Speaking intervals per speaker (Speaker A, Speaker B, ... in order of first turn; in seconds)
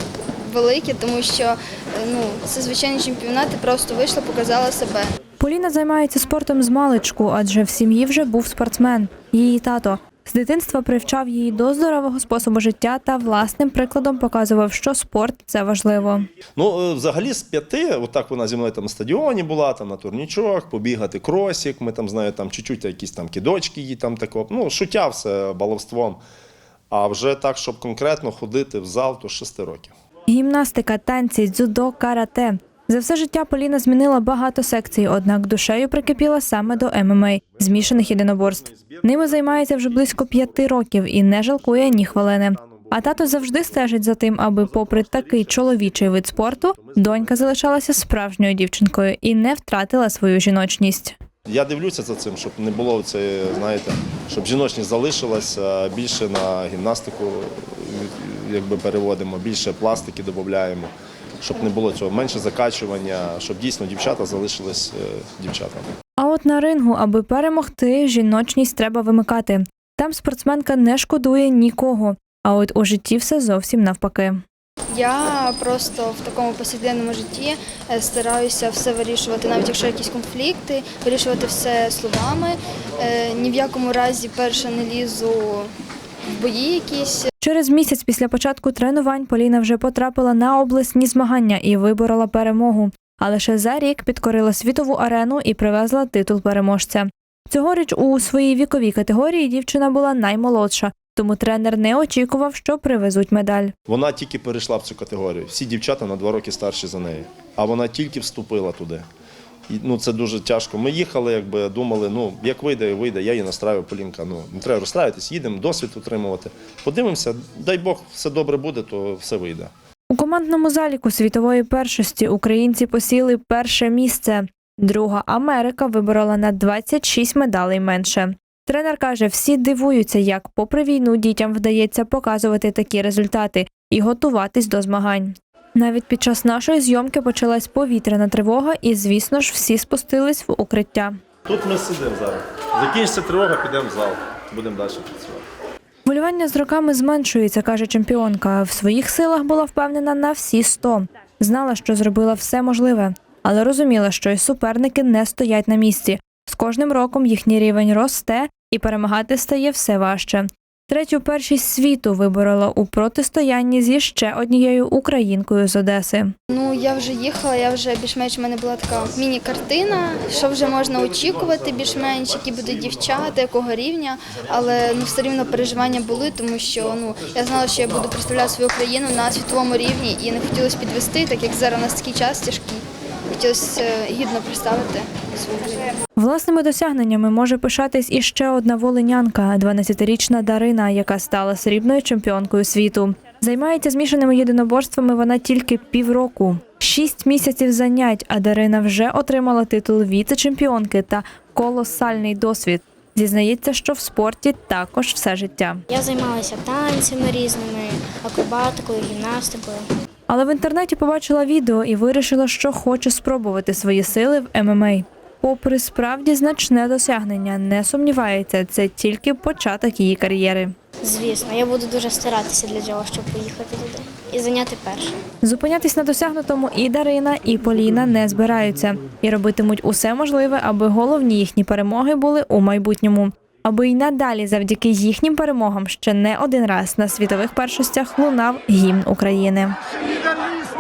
Speaker A: 0.4-5.1, 74.9-85.7, 86.3-87.3, 166.5-185.9
Speaker B: 5.4-16.3, 30.3-51.2, 66.2-74.4, 87.4-103.7, 120.1-141.2, 146.1-166.3, 186.2-205.8, 210.3-220.8, 225.4-239.8
Speaker C: 16.5-26.2, 26.9-29.9, 36.7-40.7, 41.5-44.0, 44.5-47.6, 51.5-65.9, 103.9-109.0, 109.7-119.7, 141.5-145.5, 170.4-173.2, 177.6-177.9
Speaker D: 205.9-209.9, 221.0-225.1